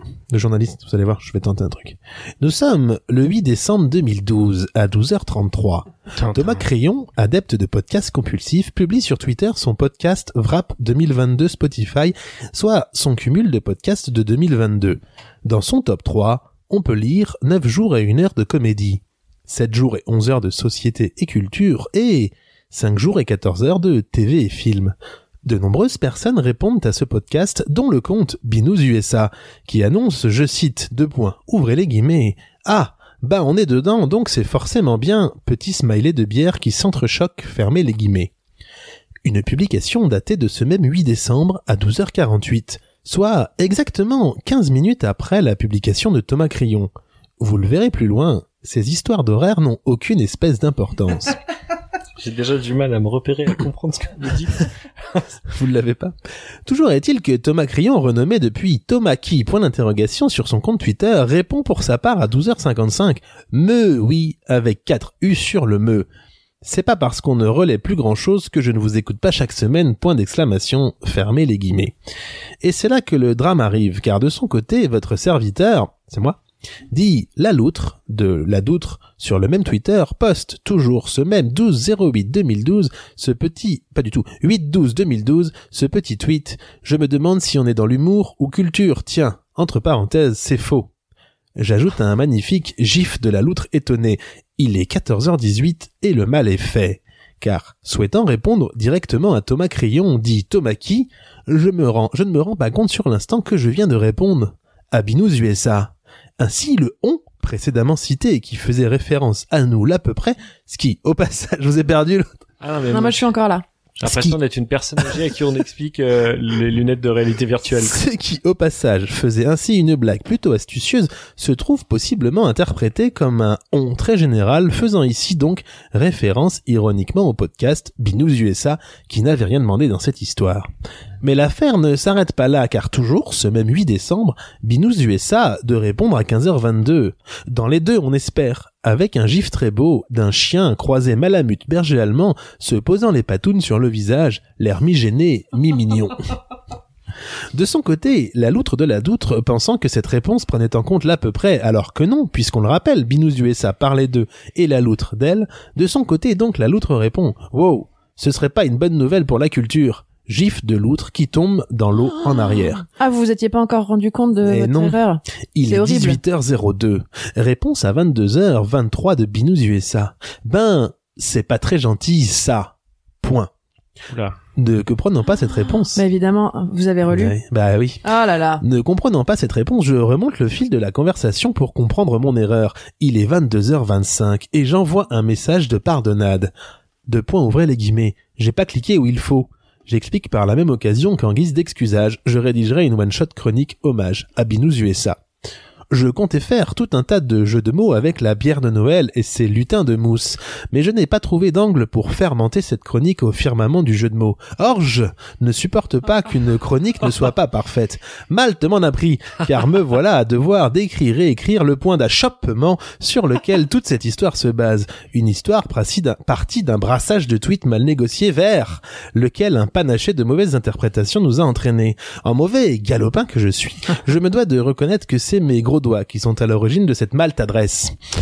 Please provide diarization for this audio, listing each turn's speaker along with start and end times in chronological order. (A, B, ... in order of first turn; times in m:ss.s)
0:00.3-0:38.3 A
0:06.2-0:06.7 B
0:39.2-0:51.4 A
0:52.2-0:54.7 B
0:55.5-0:56.2 A
0:56.7-1:06.1 A
1:06.6-1:12.0 A
1:12.6-1:16.4 A
1:16.9-1:30.9 A
1:31.6-1:52.4 A
1:52.6-1:53.3 B
1:52.9-1:53.7 C
1:54.0-1:58.0 B
1:54.0-1:54.4 A
1:57.7-2:10.7 A
2:11.2-2:26.3 A
2:27.5-2:42.9 A
2:42.1-2:46.2 C
2:44.4-2:45.0 A
2:45.6-2:53.5 A
2:54.1-2:54.4 B
2:54.6-2:56.0 A
2:55.9-2:57.4 C
2:57.1-2:58.0 A
2:58.0-2:58.6 C
2:58.6-3:06.5 A
3:07.1-3:15.2 A
3:15.9-3:48.0 A